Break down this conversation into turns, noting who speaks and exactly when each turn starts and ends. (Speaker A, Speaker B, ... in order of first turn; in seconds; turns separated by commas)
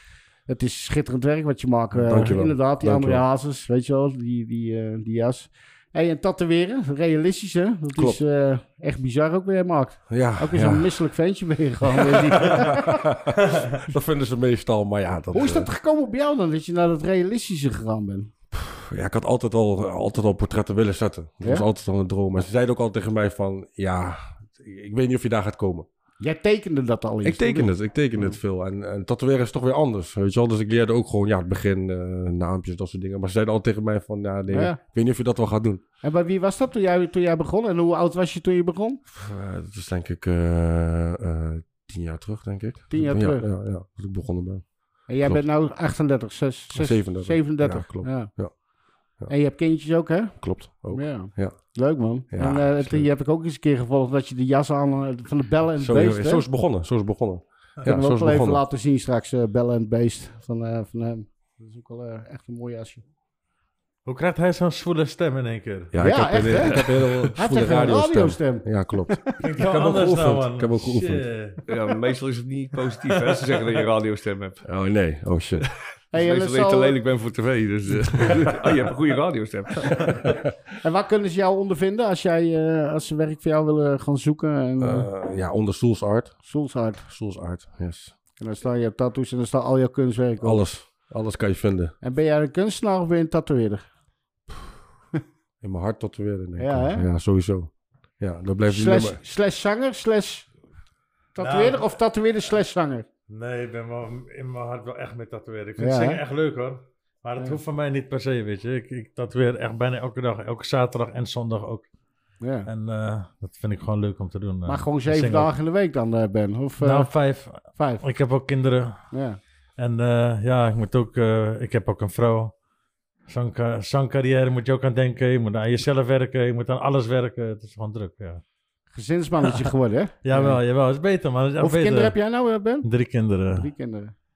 Speaker A: 0.5-13.1, Speaker B: 1.9-3.2, Speaker B: 7.9-8.2, Speaker B: 10.1-10.9, Speaker B: 11.9-15.7, Speaker A: 15.3-18.3, Speaker B: 18.5-25.9, Speaker A: 26.2-28.4, Speaker B: 27.2-35.8, Speaker A: 34.5-34.8, Speaker A: 36.0-39.0, Speaker B: 39.1-45.4, Speaker A: 42.9-43.5, Speaker A: 45.1-48.3, Speaker B: 46.7-48.5, Speaker A: 49.3-56.4, Speaker B: 50.4-53.1, Speaker B: 55.8-58.6, Speaker A: 57.8-63.0, Speaker C: 64.0-65.9, Speaker B: 65.9-71.2, Speaker A: 66.0-69.2, Speaker D: 66.5-67.2, Speaker C: 69.4-71.6, Speaker D: 71.7-74.6, Speaker C: 73.1-73.7, Speaker B: 74.6-75.7, Speaker D: 75.6-80.3, Speaker A: 76.1-77.0, Speaker B: 80.0-80.4, Speaker A: 80.8-85.1, Speaker B: 84.8-86.5, Speaker A: 86.4-87.1, Speaker B: 87.1-88.1, Speaker A: 88.4-90.6, Speaker B: 90.4-91.9, Speaker A: 92.0-93.8, Speaker B: 95.6-99.2, Speaker A: 96.6-97.0, Speaker A: 98.7-100.5, Speaker A: 101.3-103.0, Speaker C: 101.4-101.9, Speaker C: 103.3-111.9, Speaker A: 105.8-106.2, Speaker A: 112.4-112.7, Speaker C: 112.7-115.5, Speaker A: 114.7-117.1, Speaker C: 116.8-119.1, Speaker A: 117.7-118.0, Speaker A: 119.1-119.4, Speaker C: 119.8-122.5, Speaker C: 123.3-128.4, Speaker A: 128.9-130.6, Speaker C: 129.4-129.7, Speaker C: 130.2-132.2, Speaker A: 131.6-132.9, Speaker C: 132.8-133.7, Speaker A: 133.5-134.1